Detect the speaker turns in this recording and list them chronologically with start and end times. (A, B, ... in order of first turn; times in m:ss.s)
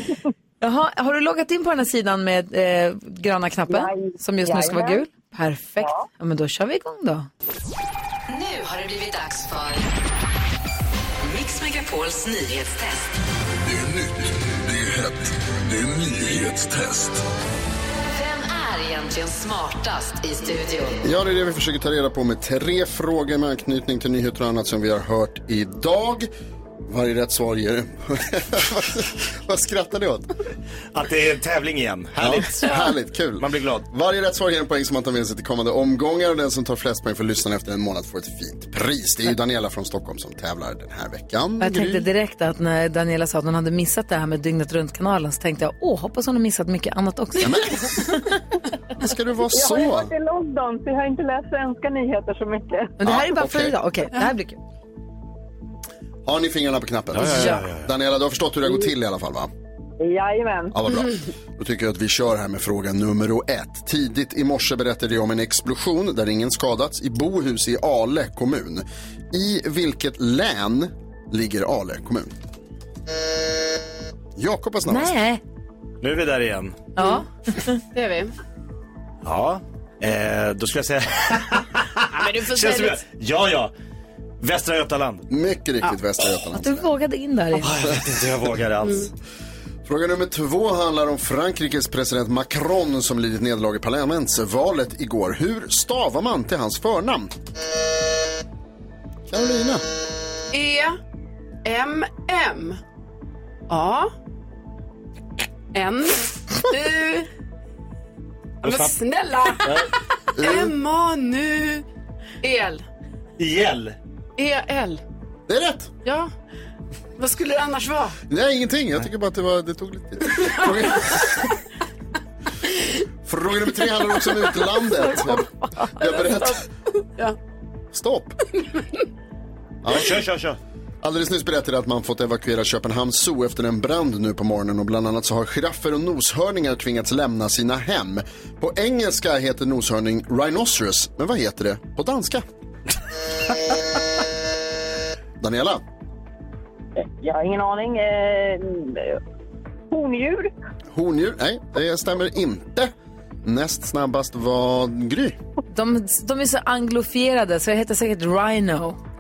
0:00.6-0:07.3 A
0:03.7-0:05.0 B
0:05.8-0:06.1 B
0:08.3-0:09.9 C
0:11.2-0:13.1 C
0:13.6-0:17.2 D
0:18.0-0:21.0 C
0:21.0-0:26.3 E
0:26.9-0:30.3 E
0:30.9-0:32.7 F
0:32.2-0:42.1 E
0:33.4-0:33.9 F
0:41.6-0:48.2 A
0:47.4-0:47.8 E
0:49.0-0:50.1 E
0:49.5-0:53.0 B
0:53.0-0:54.6 A
0:53.0-0:53.8 E
0:56.2-0:59.5 E
0:57.1-0:57.9 F
1:00.0-1:00.8 B
1:00.7-1:12.3 E
1:14.4-1:15.2 E
1:14.9-1:15.4 A
1:16.0-1:16.9 F
1:17.0-1:17.8 A
1:17.0-1:17.2 G
1:17.9-1:18.3 G
1:19.2-1:23.7 F
1:22.2-1:23.0 G
1:24.4-1:25.3 F
1:25.3-1:26.9 E
1:26.5-1:27.7 A
1:27.6-1:29.1 F
1:28.8-1:29.1 G
1:29.8-1:37.3 E
1:39.3-1:39.8 E
1:40.5-1:41.0 G
1:41.6-1:42.8 G
1:43.7-1:44.1 G
1:45.7-1:47.3 G
1:48.6-1:51.8 G
1:48.6-1:49.0 F
1:50.4-1:50.7 E
1:52.4-1:52.8 G
1:53.4-1:54.0 F
1:54.4-1:55.0 G
1:55.5-1:55.9 E
1:56.0-1:56.3 G
1:57.2-1:58.2 G
1:58.3-2:01.3 E
2:00.3-2:01.0 G
2:03.2-2:06.6 E
2:06.1-2:06.4 G
2:07.9-2:08.4 E
2:09.8-2:10.3 E
2:09.9-2:10.6 F
2:11.0-2:22.4 E
2:25.4-2:25.8 E
2:27.0-2:29.2 B
2:29.9-2:30.5 B
2:30.9-2:32.9 E
2:33.4-2:35.4 E
2:35.7-2:39.0 A